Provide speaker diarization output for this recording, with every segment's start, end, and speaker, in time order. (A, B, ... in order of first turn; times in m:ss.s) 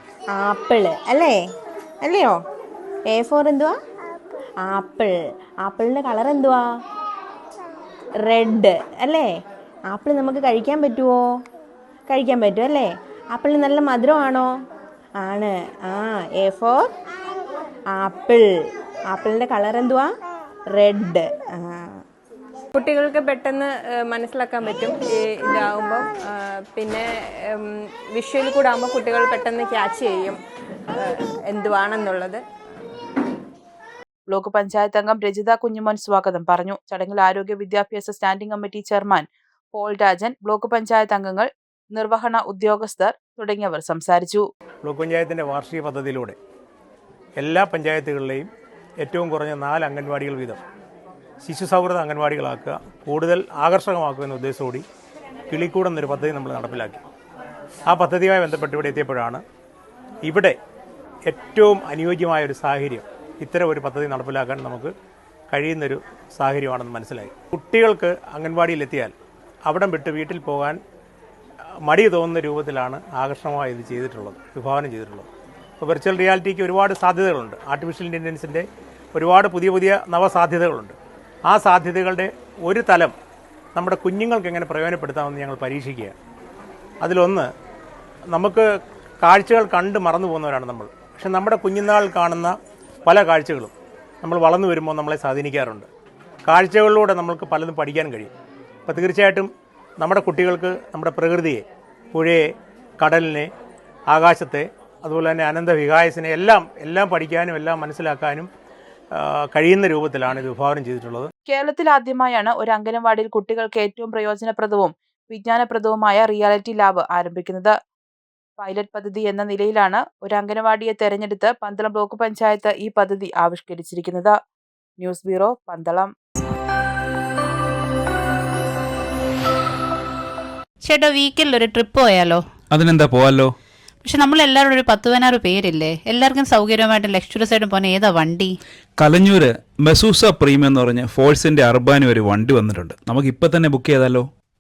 0:00.4-0:01.4 A
0:02.0-0:02.4 A
0:03.1-0:03.8 A
0:04.6-0:06.6 A
0:08.3-0:09.3 A
0:09.9-0:11.3 A
0:12.1-0:14.5 A
0:15.2-0:16.9 A
0:17.9-0:18.5 A
0:19.1-0:20.1 A
0:20.8-0:22.0 A
0:22.7-0:30.4 B
0:31.0-0:32.4 B
0:34.3-0:44.4 C
0:44.8-0:46.4 D
0:47.4-0:48.5 D
0:49.0-0:50.6 D
0:51.4-0:54.8 D
0:55.5-0:57.0 D
0:57.9-0:59.4 D
1:00.2-1:00.6 D
1:01.3-1:04.9 D
1:05.5-1:09.2 D
1:09.7-1:10.8 D
1:11.8-1:15.3 D
1:15.8-1:23.2 D
1:23.8-1:26.2 D
1:27.0-1:27.5 D
1:28.3-1:28.7 D
1:29.2-1:35.9 D
1:36.5-1:38.3 D
1:38.9-1:42.5 D
1:43.0-1:43.5 D
1:44.1-1:48.5 D
1:49.1-1:51.3 D
1:51.5-1:57.8 C
1:58.6-2:04.4 C
2:05.0-2:06.1 C
2:10.8-2:12.4 E
2:12.7-2:13.5 F
2:14.0-2:18.6 E
2:19.0-2:24.3 F